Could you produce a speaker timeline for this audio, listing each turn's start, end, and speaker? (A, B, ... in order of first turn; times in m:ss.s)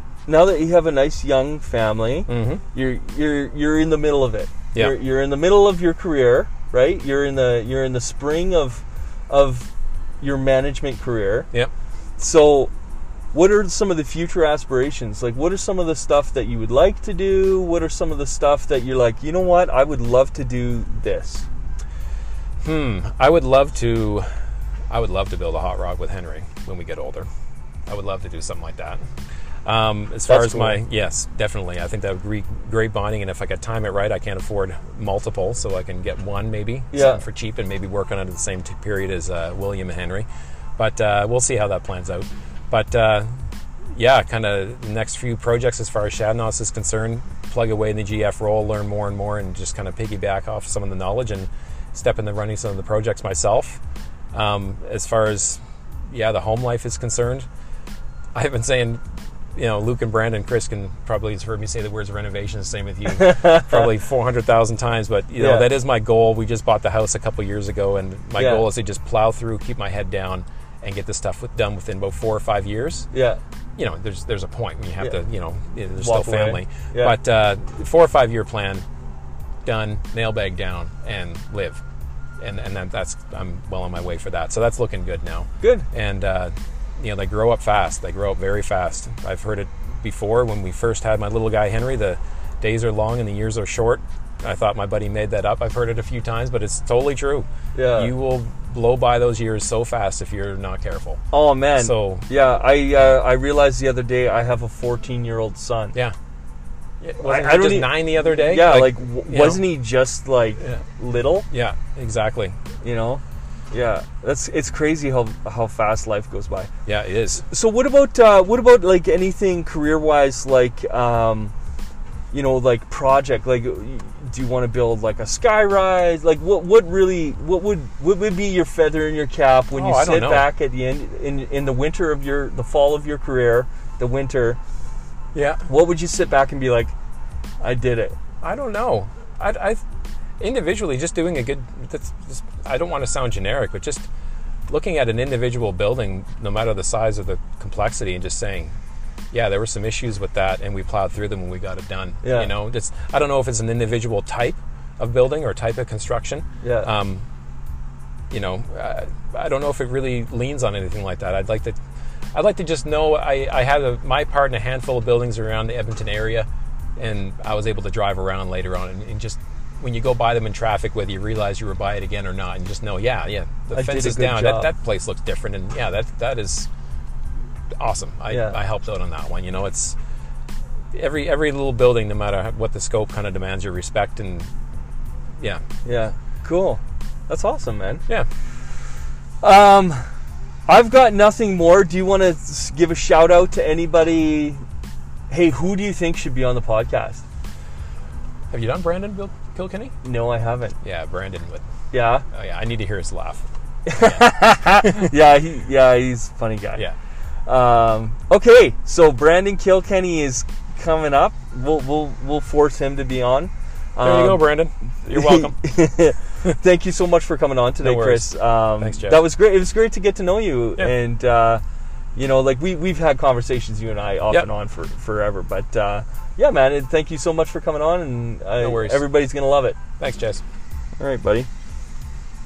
0:00.3-0:09.7 A
0:02.3-0:02.6 B
0:10.2-0:11.5 A
0:12.2-0:12.7 A
0:13.3-0:21.5 A
0:22.6-0:24.3 B
0:24.9-0:27.3 B
0:27.9-0:29.0 B
0:29.6-0:43.4 B
0:30.3-0:30.8 A
0:36.9-0:37.2 A
0:43.9-0:53.8 B
0:54.3-0:57.5 B
0:58.4-0:59.0 B
0:59.5-1:13.1 B
1:03.1-1:03.9 A
1:05.4-1:05.7 A
1:08.4-1:08.6 A
1:13.1-1:13.4 A
1:13.8-1:18.8 B
1:16.0-1:17.2 A
1:19.6-1:21.8 B
1:22.4-1:41.2 B
1:25.6-1:25.9 A
1:37.8-1:38.1 A
1:41.3-1:46.0 A
1:41.8-1:42.3 B
1:47.0-1:49.7 B
1:47.2-1:51.5 A
1:51.5-1:52.6 B
1:52.8-1:56.7 A
1:56.9-1:57.4 B
1:57.5-2:01.5 A
2:02.3-2:14.6 A
2:09.7-2:10.5 B
2:15.3-2:15.6 B
2:15.7-2:16.9 A
2:17.6-2:18.2 A
2:18.4-2:19.8 B
2:20.4-2:24.1 B
2:24.7-2:28.7 B
2:29.3-2:37.3 B
2:32.2-2:32.5 A
2:36.6-2:36.9 A
2:38.3-2:41.8 B
2:42.3-2:56.7 B
2:53.7-2:54.7 A
2:57.8-3:00.0 B
2:58.3-2:58.6 A
3:00.9-3:04.5 B
3:05.8-3:08.0 A
3:09.4-3:10.1 A
3:10.7-3:14.6 A
3:15.3-3:17.2 A
3:18.5-3:20.0 B
3:20.0-3:20.8 A
3:20.8-3:21.6 B
3:21.9-3:22.2 A
3:22.3-3:23.4 B
3:23.9-3:26.8 A
3:24.0-3:24.2 B
3:24.8-3:25.1 B
3:27.5-3:34.5 A
3:34.0-3:35.6 B
3:35.1-3:41.6 A
3:37.8-3:39.2 B
3:42.1-3:49.8 A
3:48.6-3:49.1 B
3:50.0-3:50.4 B
3:51.0-3:51.5 A